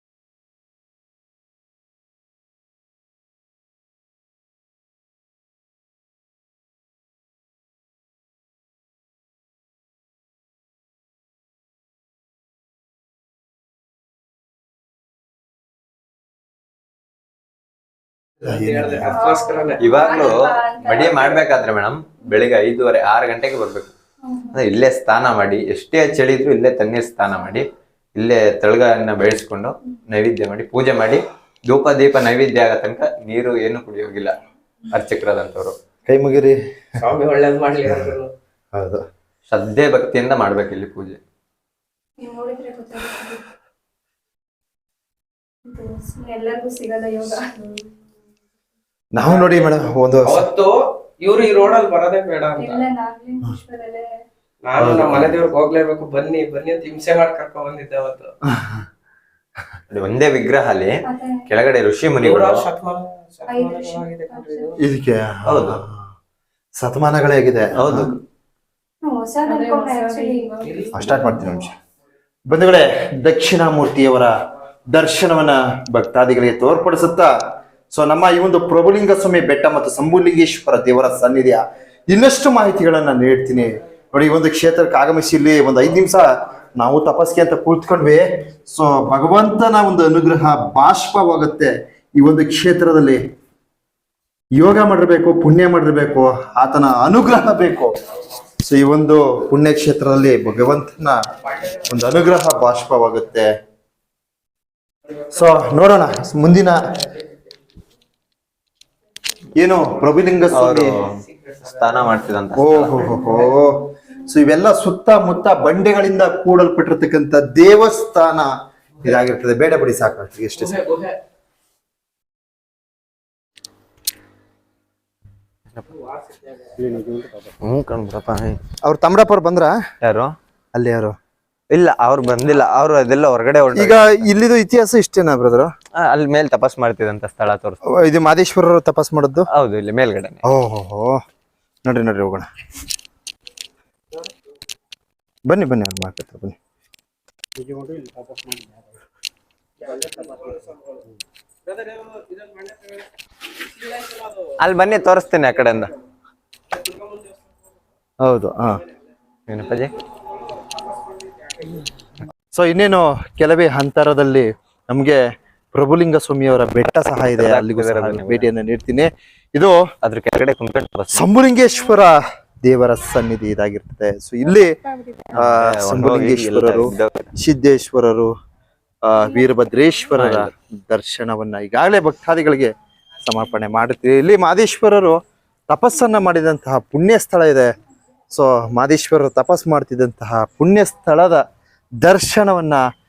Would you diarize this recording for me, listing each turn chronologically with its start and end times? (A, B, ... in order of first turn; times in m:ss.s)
0:18.4-0:20.5 A
0:18.4-0:19.2 B
0:19.0-0:21.4 C
0:19.8-0:23.9 D
0:24.2-0:24.6 C
0:24.5-0:27.6 D
0:28.2-0:34.3 D
0:34.9-0:35.7 D
0:36.0-0:37.0 B
0:37.0-0:38.3 A
0:37.8-0:38.2 B
0:38.7-0:39.0 B
0:39.5-0:41.2 D
0:42.2-0:43.4 C
0:45.6-0:47.9 C
0:49.1-0:50.4 B
0:49.2-0:52.8 A
0:52.6-0:54.1 C
0:54.6-0:58.3 A
0:54.8-0:55.4 B
0:58.4-0:58.8 B
0:59.9-1:00.9 D
1:01.0-1:01.4 C
1:01.4-1:02.6 D
1:02.2-1:04.8 A
1:03.5-1:04.8 C
1:04.8-1:06.1 B
1:05.5-1:05.8 D
1:06.8-1:08.1 B
1:07.8-1:08.2 D
1:09.0-1:10.9 C
1:09.5-1:11.6 A
1:10.9-1:11.7 B
1:12.5-1:14.3 B
1:14.9-1:17.3 B
1:17.9-1:33.2 B
1:34.5-1:37.9 B
1:38.6-1:41.2 B
1:41.8-1:43.5 B
1:45.3-1:46.8 B
1:49.6-1:50.9 B
1:50.5-1:53.2 D
1:50.6-1:52.2 A
1:52.6-1:58.5 B
1:53.2-1:53.5 A
1:59.0-2:00.8 B
2:00.6-2:01.2 A
2:06.2-2:07.2 A
2:07.6-2:08.6 D
2:08.8-2:09.7 B
2:10.0-2:10.3 D
2:10.7-2:11.1 B
2:11.7-2:14.3 D
2:13.7-2:15.7 B
2:16.0-2:17.8 D
2:17.9-2:19.5 B
2:19.5-2:20.4 D
2:20.4-2:21.2 B
2:21.8-2:22.5 B
2:25.4-2:26.5 B
2:30.0-2:31.0 A
2:31.7-2:33.0 A
2:33.8-2:34.2 A
2:34.6-2:35.9 D
2:38.2-2:38.8 B
2:39.5-2:39.9 D
2:42.5-2:45.2 B
2:45.7-2:49.8 B
2:47.4-2:48.5 D
2:50.0-2:51.3 D
2:51.1-2:54.8 B
2:55.3-2:57.3 D
2:55.3-2:58.3 B
2:59.0-3:05.2 B
3:00.2-3:00.5 D
3:05.7-3:07.7 B
3:08.3-3:11.4 B
3:12.0-3:12.8 B